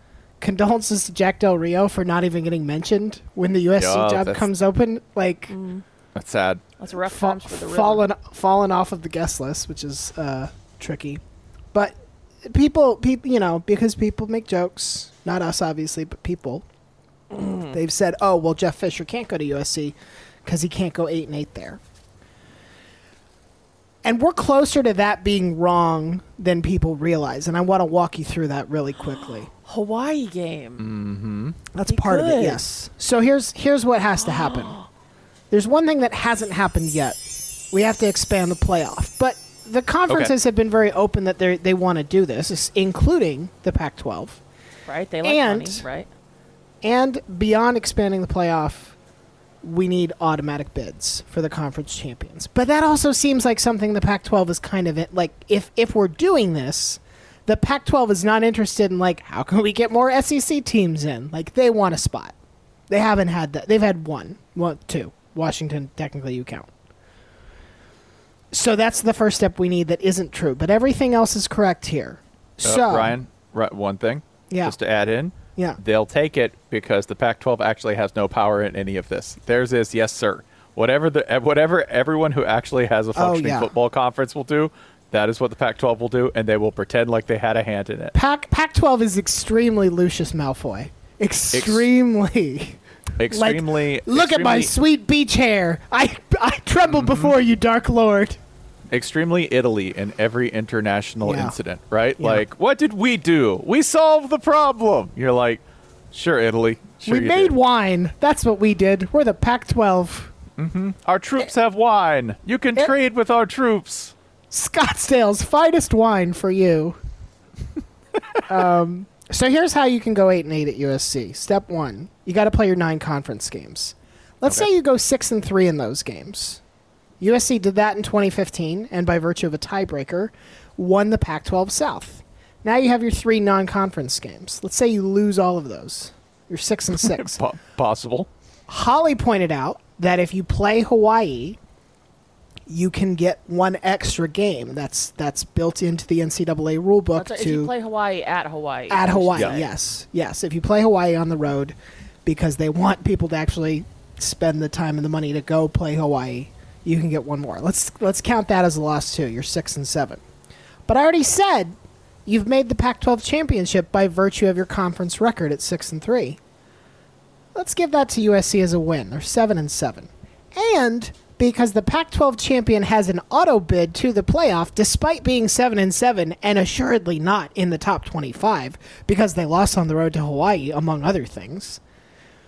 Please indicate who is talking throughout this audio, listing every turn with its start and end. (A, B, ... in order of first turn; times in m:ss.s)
0:00.4-0:05.5 A
0:03.8-0:04.5 B
0:05.5-0:05.8 C
0:06.1-0:06.6 B
0:06.8-0:08.0 C
0:07.0-0:11.2 A
0:11.7-0:16.6 A
0:17.3-0:17.7 C
0:17.4-0:21.8 A
0:24.0-0:29.5 A
0:29.6-0:30.9 C
0:30.8-0:31.6 B
0:31.7-0:34.8 A
0:31.9-0:32.6 C
0:34.4-0:34.9 C
0:35.5-0:37.2 A
0:37.7-0:44.4 A
0:44.9-0:46.1 C
0:45.2-0:45.8 A
0:46.8-0:48.9 A
0:49.6-1:02.3 A
1:02.9-1:06.7 A
1:08.5-1:13.2 A
1:12.6-1:28.1 B
1:14.5-1:14.8 A
1:23.1-1:23.7 A
1:28.1-1:32.8 A
1:31.5-1:31.9 B
1:33.2-1:34.7 B
1:33.3-1:38.4 A
1:37.0-1:37.3 B
1:38.9-1:47.5 B
1:41.2-1:41.6 A
1:42.2-1:42.4 A
1:47.0-1:50.3 A
1:50.6-1:54.1 B
1:54.5-1:57.0 A
1:58.5-2:06.6 A
2:07.2-2:17.4 A
2:17.0-2:18.3 B
2:18.7-2:21.6 A
2:22.7-2:27.7 A
2:27.2-2:29.7 C
2:28.9-2:40.2 A
2:40.9-2:46.4 A
2:47.5-3:01.8 A